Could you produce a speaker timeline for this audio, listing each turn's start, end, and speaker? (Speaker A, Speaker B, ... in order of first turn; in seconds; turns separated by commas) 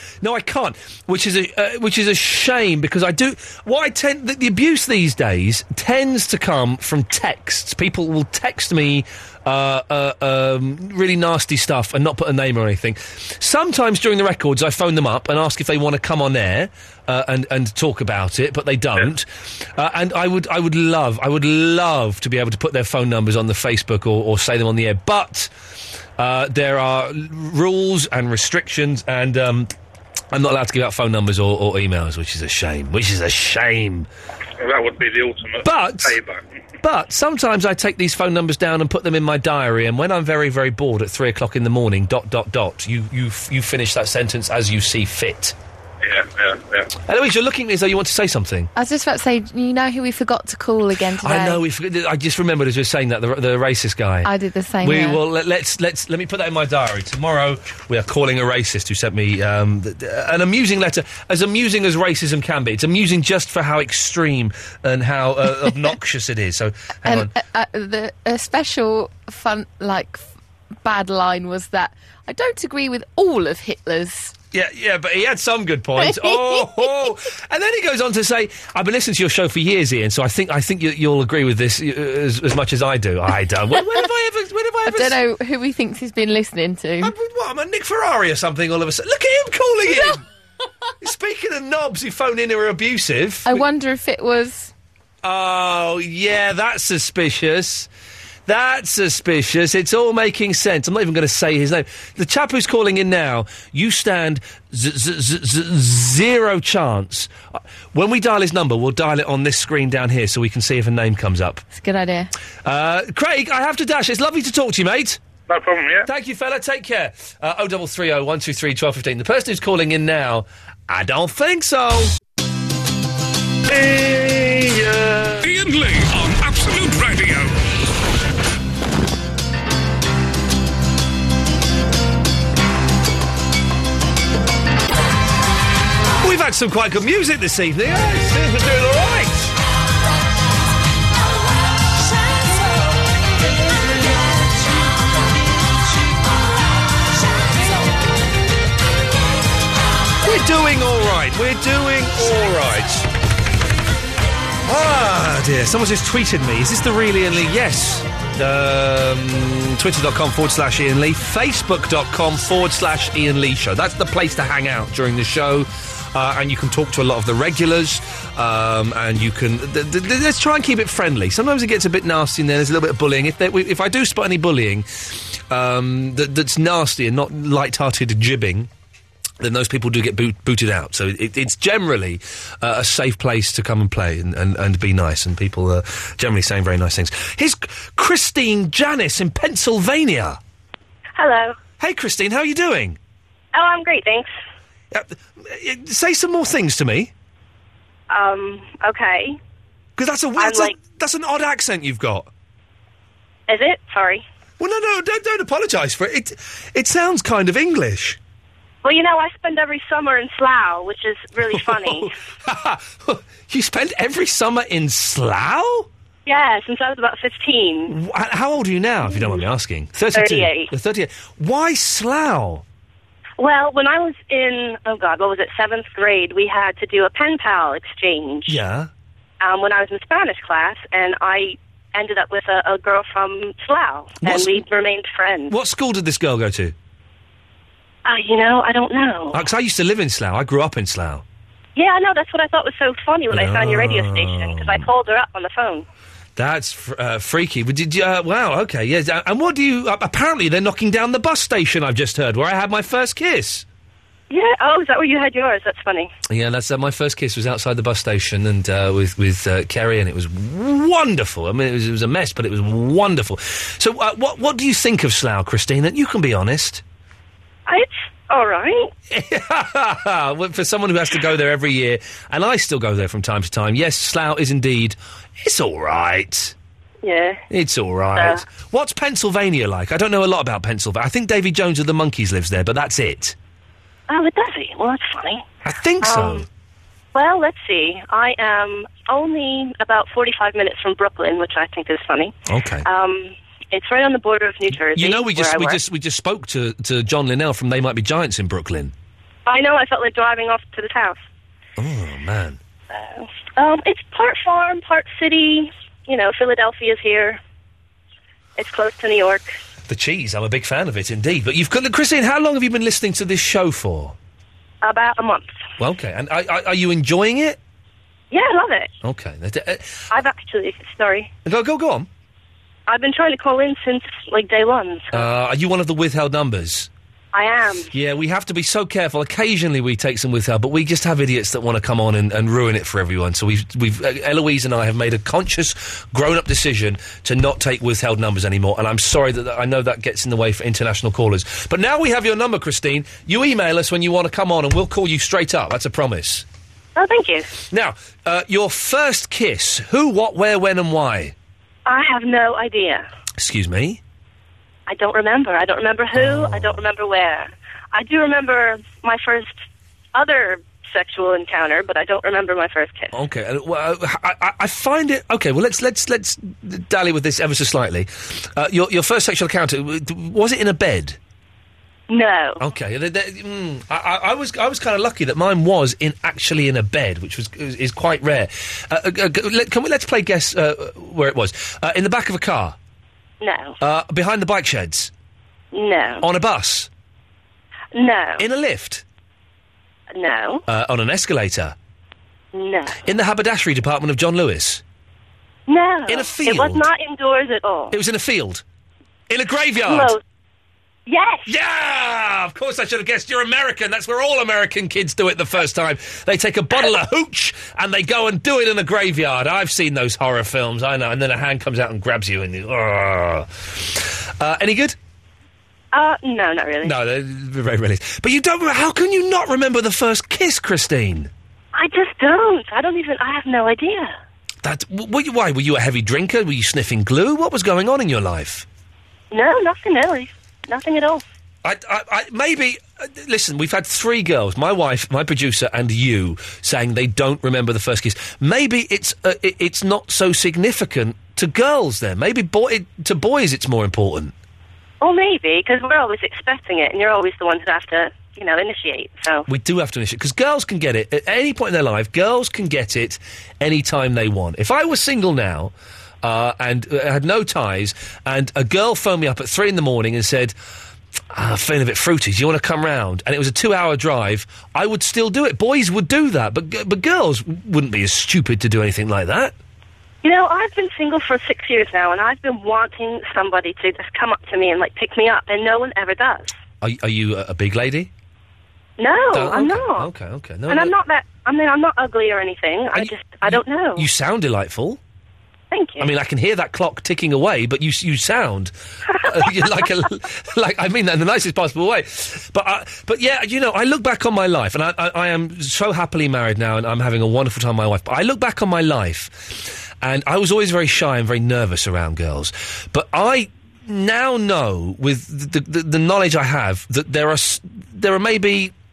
Speaker A: 0.2-25.5, Speaker A: 26.2-29.7, Speaker A: 30.3-34.1, Speaker B: 34.6-36.4, Speaker A: 35.6-36.2, Speaker A: 36.8-45.5, Speaker B: 46.0-46.9, Speaker A: 47.0-48.7, Speaker C: 48.7-51.6, Speaker A: 51.2-54.3, Speaker C: 54.2-55.2, Speaker A: 54.8-67.3, Speaker C: 67.0-70.3, Speaker C: 70.8-74.3, Speaker A: 74.5-85.2, Speaker C: 76.0-76.9, Speaker C: 84.8-87.1, Speaker A: 87.0-90.2, Speaker A: 91.0-93.6, Speaker C: 93.5-94.7, Speaker A: 95.2-97.9, Speaker A: 98.5-111.6, Speaker C: 111.7-112.3, Speaker A: 112.6-115.2, Speaker B: 115.5-116.1, Speaker A: 116.0-122.1, Speaker A: 123.7-125.3, Speaker D: 125.4-127.5, Speaker A: 136.2-139.5, Speaker A: 150.2-153.1, Speaker A: 154.6-178.7, Speaker A: 179.4-190.4, Speaker E: 191.2-191.6, Speaker A: 191.8-193.0, Speaker E: 193.5-194.3, Speaker A: 194.9-197.1, Speaker E: 198.1-199.4, Speaker A: 200.0-202.3, Speaker E: 200.4-200.8, Speaker E: 203.5-204.2, Speaker A: 204.6-208.2, Speaker E: 208.8-212.1, Speaker A: 211.5-215.9, Speaker E: 216.2-217.9, Speaker A: 217.9-222.6, Speaker E: 219.1-219.4, Speaker E: 220.1-220.7, Speaker E: 223.4-228.6, Speaker A: 228.5-228.9, Speaker E: 229.4-235.5, Speaker A: 234.2-234.6, Speaker A: 235.5-236.7, Speaker E: 238.0-239.4, Speaker A: 239.3-241.2, Speaker E: 241.8-245.8, Speaker A: 243.3-244.9, Speaker A: 246.3-253.7, Speaker E: 254.3-256.1, Speaker A: 256.3-266.8, Speaker E: 267.7-268.9, Speaker A: 269.1-276.5, Speaker E: 277.0-277.4, Speaker A: 277.5-283.4, Speaker E: 278.1-278.4, Speaker E: 284.1-285.4, Speaker A: 285.6-286.5, Speaker E: 286.0-286.4, Speaker E: 287.1-292.3, Speaker A: 292.5-292.9, Speaker E: 292.8-295.8, Speaker A: 294.9-298.9, Speaker E: 299.4-301.2, Speaker A: 301.8-302.6, Speaker E: 302.9-307.4, Speaker E: 308.6-309.5, Speaker A: 309.9-314.1, Speaker E: 314.8-315.5, Speaker A: 315.8-317.6, Speaker E: 318.3-318.9, Speaker A: 319.0-320.1, Speaker E: 320.1-321.3, Speaker A: 321.4-322.1, Speaker E: 322.9-325.2, Speaker A: 325.1-326.9, Speaker E: 327.3-327.9, Speaker A: 327.9-346.4, Speaker E: 346.9-347.5, Speaker A: 347.7-351.3, Speaker E: 351.9-353.0, Speaker A: 353.4-354.0, Speaker E: 354.9-359.6, Speaker A: 356.1-356.8, Speaker E: 360.1-363.1, Speaker A: 363.1-371.2, Speaker E: 372.1-372.6, Speaker A: 372.6-382.8, Speaker E: 383.4-383.8, Speaker A: 383.8-385.1, Speaker E: 385.7-386.2, Speaker A: 386.2-386.9, Speaker E: 387.9-388.4, Speaker A: 388.4-389.0, Speaker E: 390.1-390.6, Speaker A: 390.7-391.8, Speaker E: 392.5-393.0, Speaker A: 393.0-394.8, Speaker E: 395.7-397.9, Speaker A: 396.1-396.9, Speaker A: 397.9-398.6, Speaker A: 399.3-400.1, Speaker E: 399.8-400.2, Speaker E: 401.1-401.5, Speaker A: 401.4-414.9, Speaker E: 415.9-416.9, Speaker A: 416.8-421.3, Speaker E: 421.7-424.1, Speaker A: 424.6-428.6, Speaker E: 429.3-431.2, Speaker A: 431.6-444.3, Speaker E: 445.0-449.5, Speaker A: 449.5-460.5, Speaker A: 461.3-469.6, Speaker E: 470.2-476.5, Speaker A: 476.8-478.1, Speaker E: 479.0-480.1, Speaker A: 479.3-480.9, Speaker E: 480.7-484.1, Speaker A: 482.9-485.0, Speaker E: 485.7-486.1, Speaker A: 486.0-508.7